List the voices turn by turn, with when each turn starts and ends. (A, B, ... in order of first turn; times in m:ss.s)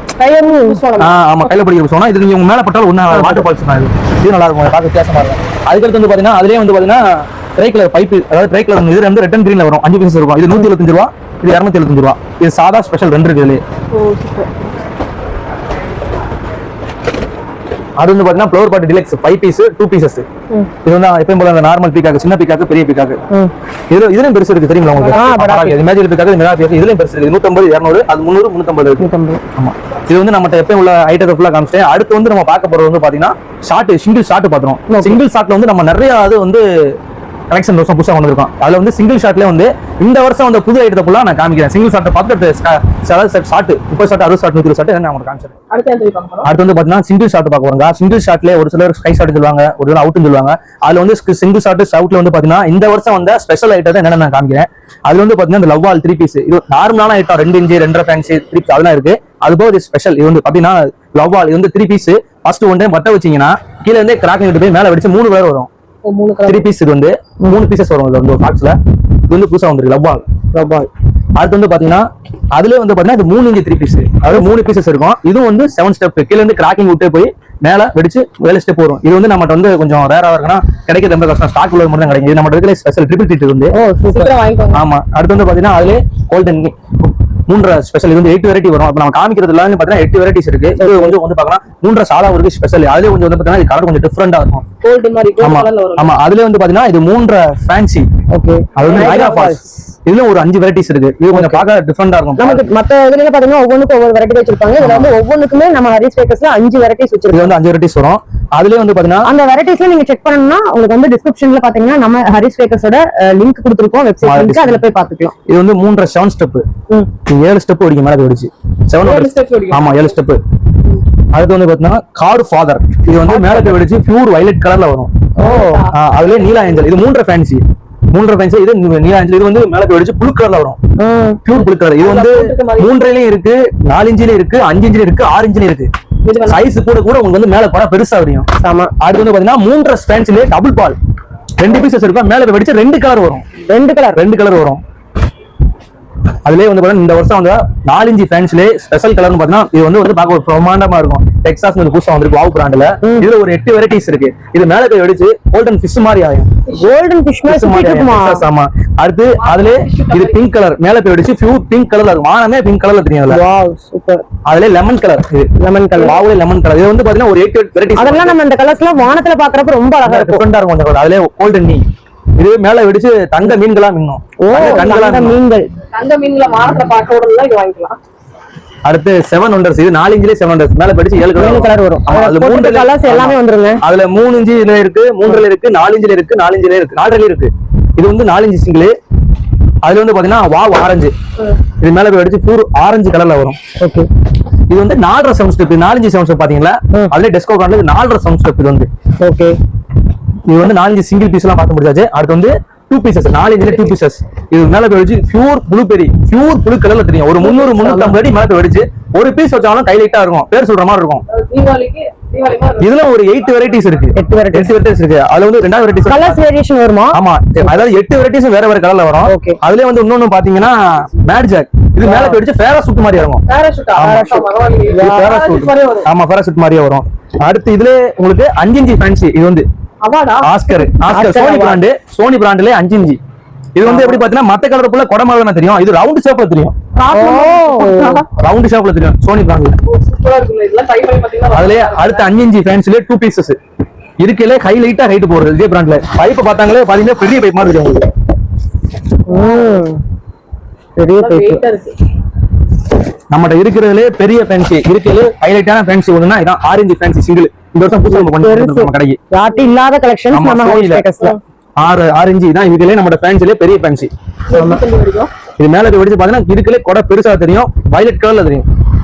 0:00.2-0:01.2 A
0:00.2-0:00.8 B
0:01.0-0:13.6 C
0:03.1-0:03.4 B
0:13.9-0:14.7 A
0:18.0-0:20.3 C
0:20.8-0:23.2 C
0:23.9-0:37.0 C
0:25.0-0:25.3 A
0:25.1-0:25.8 B
0:29.0-0:29.4 B
0:34.9-0:35.2 B
0:37.5-0:45.5 C
0:45.7-0:46.5 A
0:46.4-1:05.7 C
1:06.0-1:06.7 A
1:06.5-1:08.8 C
1:09.3-1:10.2 C
1:10.5-1:10.9 B
1:11.4-1:23.7 C
1:23.7-1:24.3 B
1:24.1-1:24.8 A
1:24.7-1:34.7 C
1:30.8-1:31.2 B
1:34.8-1:36.2 A
1:35.4-1:38.1 C
1:38.3-1:39.7 B
1:38.8-1:42.6 C
1:38.8-1:39.5 A
1:41.3-1:41.6 B
1:42.4-1:47.6 B
1:44.8-1:45.1 C
1:47.3-1:49.3 C
1:49.2-1:55.4 B
1:54.2-1:54.8 C
1:55.5-1:56.7 C
1:57.3-2:00.4 C
1:59.0-2:00.2 A
2:01.3-2:05.2 C
2:03.3-2:03.8 A
2:05.4-2:05.8 B
2:05.4-2:06.9 A
2:05.9-2:10.8 C
2:11.0-2:11.4 B
2:11.4-2:15.9 C
2:11.5-2:13.1 A
2:16.2-2:16.7 A
2:16.4-2:18.5 C
2:18.6-2:18.9 B
2:19.0-2:21.0 C
2:21.6-2:23.4 C
2:23.7-2:24.2 B
2:24.2-2:24.8 C
2:26.4-2:36.5 C
2:33.0-2:33.3 B
2:36.8-2:38.4 B
2:37.5-2:43.4 C
2:39.4-2:40.5 A
2:43.3-2:44.2 B
2:44.5-2:48.4 C
2:45.6-2:46.2 B
2:48.0-2:50.4 B
2:50.0-2:51.8 C
2:52.4-2:55.4 C
2:54.4-2:55.7 B
2:55.9-2:58.0 A
2:58.8-3:08.9 C
3:01.4-3:03.8 B
3:09.8-3:11.1 C
3:11.8-3:13.6 C
3:13.8-3:14.1 B
3:14.7-3:18.9 C
3:19.2-3:19.6 B
3:20.5-3:31.2 C
3:27.4-3:28.2 B
3:31.3-3:33.1 A
3:32.8-3:36.4 C
3:34.2-3:34.7 B
3:36.1-3:37.8 B
3:37.1-3:43.4 C
3:39.3-3:39.6 B
3:42.0-3:42.4 B
3:43.5-3:46.1 A
3:44.0-3:44.4 C
3:44.0-3:45.3 B
3:45.0-3:49.7 C
3:50.0-3:50.5 A
3:50.4-3:53.2 C
3:50.7-3:51.8 B
3:53.8-3:56.8 C
3:53.8-3:54.2 B
3:57.0-3:58.3 A
3:57.1-3:58.2 B
3:58.4-3:59.8 C
3:59.8-4:02.3 A
4:01.5-4:03.6 C
4:04.2-4:08.1 C
4:09.3-4:10.0 B
4:09.3-4:09.8 A
4:11.0-4:11.6 B
4:11.2-4:12.0 A
4:13.3-4:19.2 C
4:18.1-4:21.4 B
4:20.3-4:21.0 C
4:21.8-4:24.1 C
4:24.5-4:25.3 A
4:24.5-4:24.8 B
4:25.6-4:28.7 C